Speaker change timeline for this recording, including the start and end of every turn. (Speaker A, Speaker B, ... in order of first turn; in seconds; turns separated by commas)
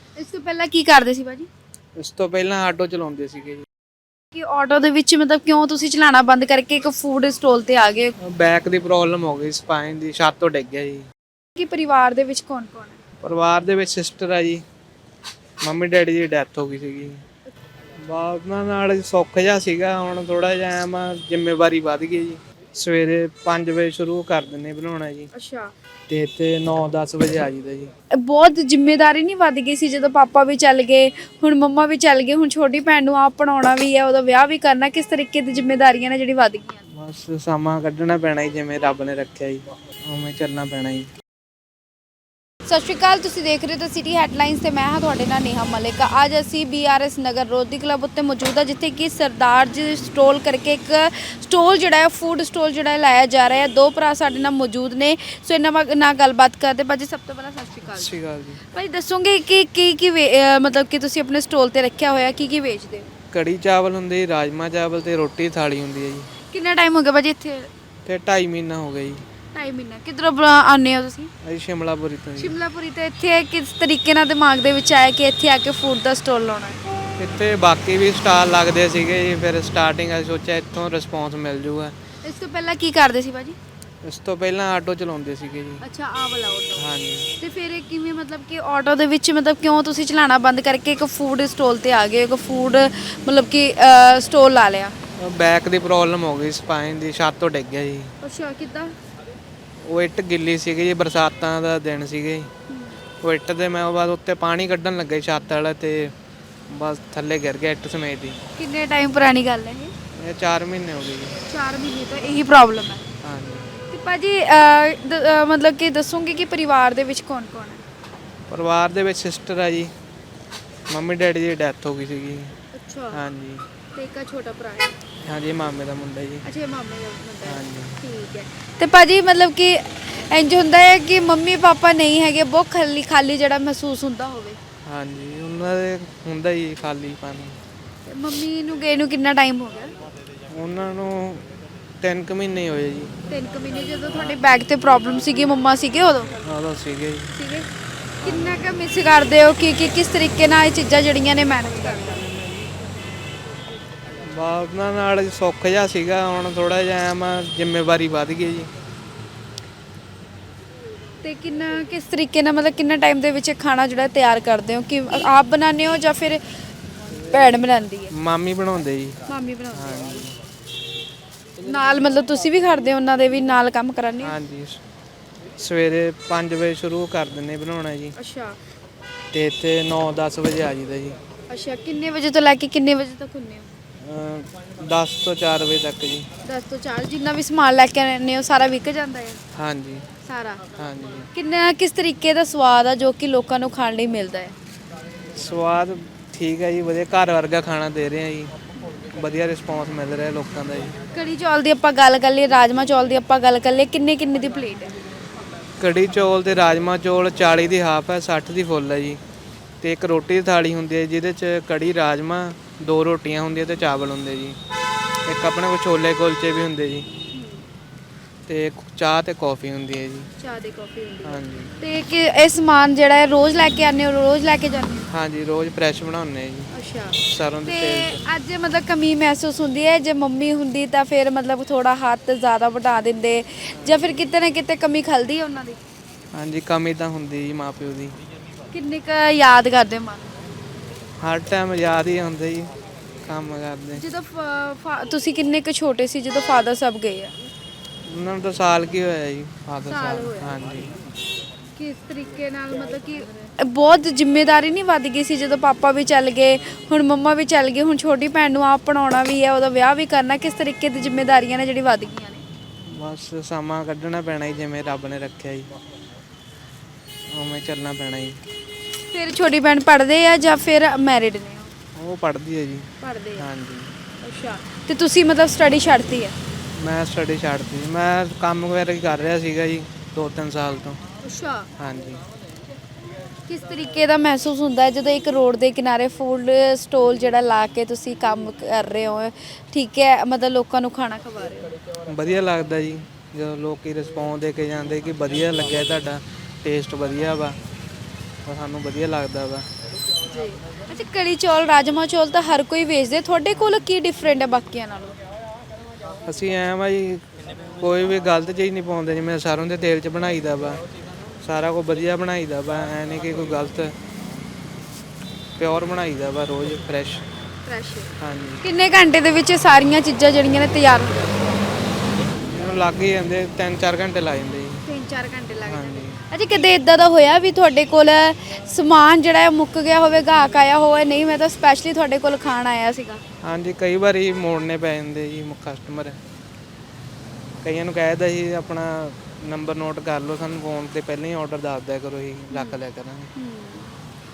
Speaker A: 0.2-1.5, Speaker B: 2.0-3.6, Speaker A: 4.3-8.1, Speaker B: 8.2-11.1, Speaker A: 11.5-13.0, Speaker B: 13.2-14.6, Speaker B: 15.6-17.2, Speaker B: 17.9-25.3, Speaker A: 25.3-25.7, Speaker B: 26.1-27.9, Speaker A: 28.1-36.8, Speaker B: 36.9-41.1, Speaker A: 42.6-63.1, Speaker B: 57.9-58.6, Speaker B: 63.3-66.3, Speaker A: 66.5-67.7, Speaker B: 68.0-69.2, Speaker A: 69.5-71.3, Speaker B: 71.4-72.5, Speaker A: 72.4-76.8, Speaker B: 77.2-81.9, Speaker A: 82.2-83.6, Speaker B: 84.0-85.8, Speaker A: 85.8-94.9, Speaker B: 86.8-87.3, Speaker B: 95.2-98.1, Speaker A: 98.2-98.9, Speaker B: 99.8-102.5, Speaker A: 102.7-103.0, Speaker B: 103.2-106.1, Speaker B: 106.7-108.4, Speaker A: 108.5-109.9, Speaker B: 110.1-111.4, Speaker A: 111.5-113.1, Speaker B: 113.2-113.7, Speaker A: 113.9-117.8, Speaker B: 118.5-119.9, Speaker B: 120.9-122.5, Speaker A: 122.7-123.2, Speaker B: 123.1-123.7, Speaker A: 123.9-125.0, Speaker B: 125.2-126.4, Speaker A: 126.4-134.6, Speaker B: 127.4-128.0, Speaker B: 134.8-137.6, Speaker A: 138.1-139.9, Speaker B: 140.5-141.5, Speaker B: 142.0-143.2, Speaker A: 143.3-146.4, Speaker B: 144.1-144.4, Speaker B: 146.4-147.3, Speaker A: 147.3-147.7, Speaker B: 148.2-148.7, Speaker A: 148.2-152.3, Speaker B: 154.2-158.7, Speaker A: 161.2-166.4, Speaker A: 167.2-168.1, Speaker B: 168.1-170.4, Speaker A: 169.2-170.1, Speaker A: 171.6-174.3, Speaker B: 174.2-174.8, Speaker B: 175.6-178.1, Speaker A: 178.1-178.6, Speaker B: 179.3-181.2, Speaker A: 181.5-183.7, Speaker B: 184.0-186.3, Speaker A: 186.4-189.4, Speaker B: 189.5-190.1, Speaker A: 190.2-190.6, Speaker B: 190.7-191.3, Speaker A: 191.3-194.5, Speaker B: 195.3-200.9, Speaker A: 201.1-204.9, Speaker B: 205.8-209.2, Speaker B: 209.8-214.6, Speaker B: 215.2-217.1, Speaker A: 217.3-217.7, Speaker B: 218.4-220.3, Speaker A: 220.4-225.1, Speaker B: 221.2-221.7, Speaker B: 225.1-228.2, Speaker A: 226.7-235.8, Speaker B: 233.7-234.2, Speaker B: 236.3-238.2, Speaker A: 238.7-240.4, Speaker B: 241.2-242.7, Speaker B: 243.2-244.1, Speaker A: 243.9-247.3, Speaker B: 248.1-250.9, Speaker A: 249.8-250.6, Speaker A: 251.8-262.4, Speaker B: 262.8-265.7, Speaker B: 267.3-268.4, Speaker A: 269.1-271.7, Speaker B: 271.9-273.9, Speaker A: 273.0-273.5, Speaker A: 274.2-276.4, Speaker B: 276.7-281.0, Speaker A: 281.2-281.7, Speaker B: 281.8-282.2, Speaker A: 283.5-291.8, Speaker B: 292.1-297.6, Speaker B: 298.4-299.7, Speaker A: 300.2-305.2, Speaker B: 303.5-303.9, Speaker B: 306.2-310.8, Speaker B: 311.4-314.0, Speaker B: 315.6-317.2, Speaker A: 317.6-321.5, Speaker B: 318.2-318.6, Speaker B: 322.4-324.8, Speaker A: 324.9-333.2, Speaker B: 325.6-326.2, Speaker B: 333.4-336.2, Speaker B: 337.6-343.3, Speaker A: 342.5-342.8, Speaker A: 343.3-343.9